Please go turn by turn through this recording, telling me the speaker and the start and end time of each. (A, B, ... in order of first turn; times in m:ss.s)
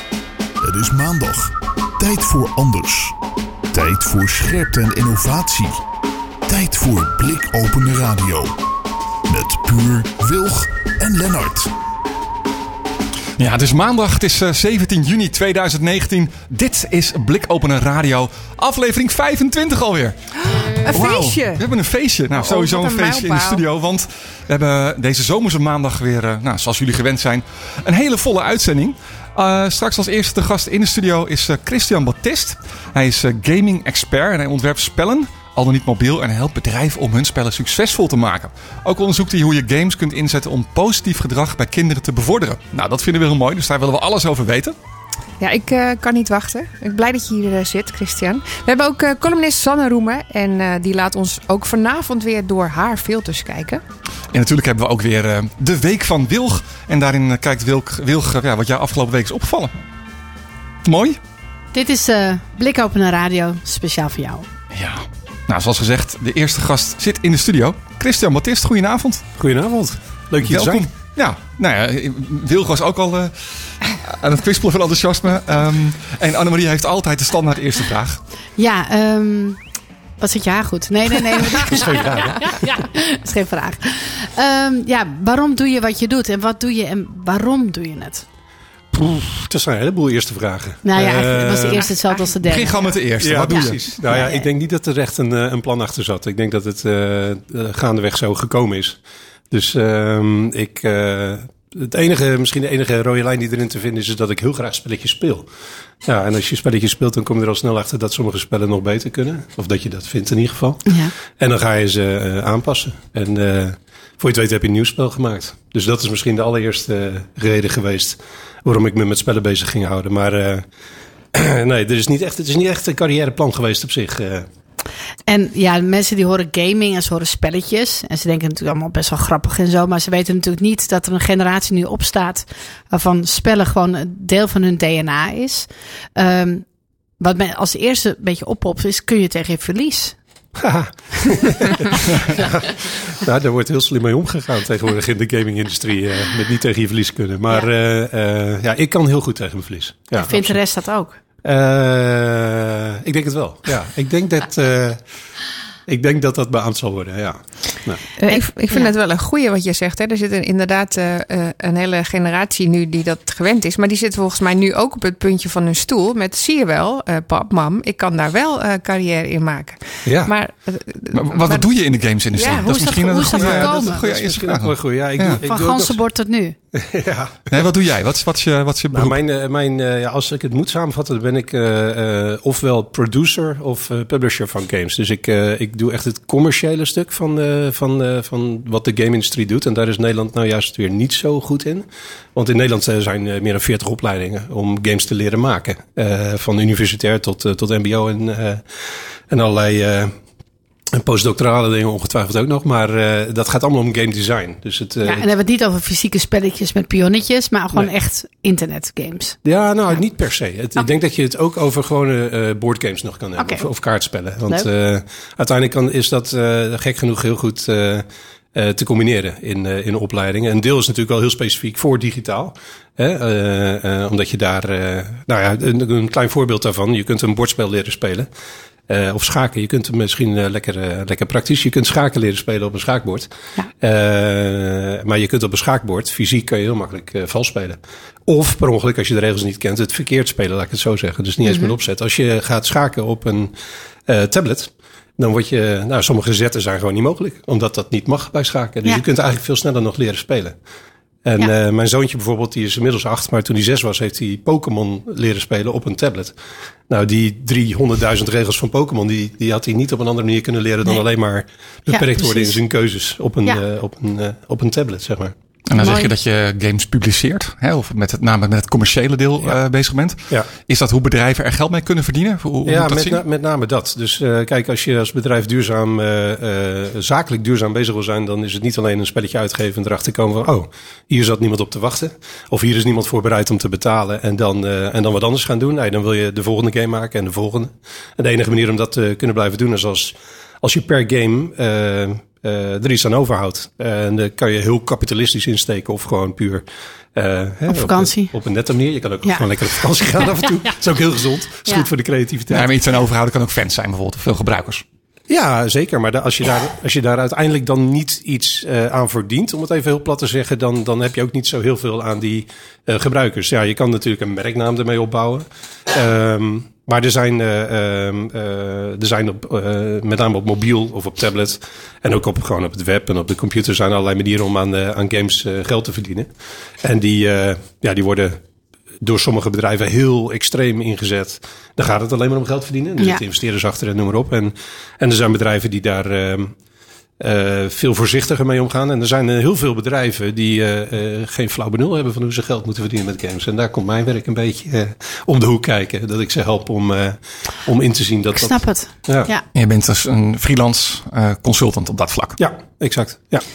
0:00.6-0:03.2 A
0:03.7-0:05.8 A
0:06.5-0:08.6 A
0:09.3-0:11.7 A
0:13.4-0:44.8 B
0:20.4-0:21.6 C
0:22.4-0:23.6 C
0:45.4-0:53.8 C
0:54.3-0:59.7 B
1:00.8-1:01.2 B
1:01.7-1:04.5 D
1:04.7-1:09.2 B
1:09.4-1:10.9 E
1:10.4-1:18.2 B
1:18.6-1:19.6 D
1:20.2-1:28.2 D
1:21.6-1:22.6 E
1:28.9-1:31.9 E
1:30.8-1:32.9 D
1:32.4-1:33.9 B
1:33.2-1:39.0 E
1:34.0-1:34.5 D
1:39.5-1:45.5 E
1:46.0-2:00.7 E
1:50.9-1:51.1 D
2:01.3-2:04.5 E
2:05.3-2:16.7 D
2:17.2-2:20.2 D
2:20.6-2:30.6 E
2:30.2-2:31.2 D
2:31.4-2:35.0 E
2:35.9-2:38.0 E
2:38.2-2:38.9 D
2:38.2-2:51.7 C
2:50.0-2:50.3 E
2:51.1-2:55.4 B
2:52.3-2:53.1 C
2:52.4-2:54.0 D
2:53.2-2:56.0 E
2:55.4-2:56.6 D
2:56.7-2:57.7 E
2:57.5-2:59.2 B
2:58.9-3:20.2 E
3:20.9-3:25.3 E
3:25.0-3:29.4 D
3:29.4-3:48.3 E
3:33.4-3:33.7 D
3:48.9-4:03.5 E
4:01.4-4:01.8 D
4:04.1-4:10.6 E
4:11.2-4:16.4 E
4:16.9-4:25.4 E
4:21.9-4:22.6 D
4:25.7-4:33.2 B
4:25.8-4:26.1 D
4:32.7-5:02.7 E
4:57.7-4:58.3 D
4:59.2-5:00.5 D
5:02.5-5:04.8 B
5:05.3-5:26.3 E
5:26.8-5:28.4 E
5:29.0-5:36.6 E
5:37.2-5:49.3 E
5:48.4-5:49.4 D
5:49.5-5:52.4 B
5:52.4-5:53.4 E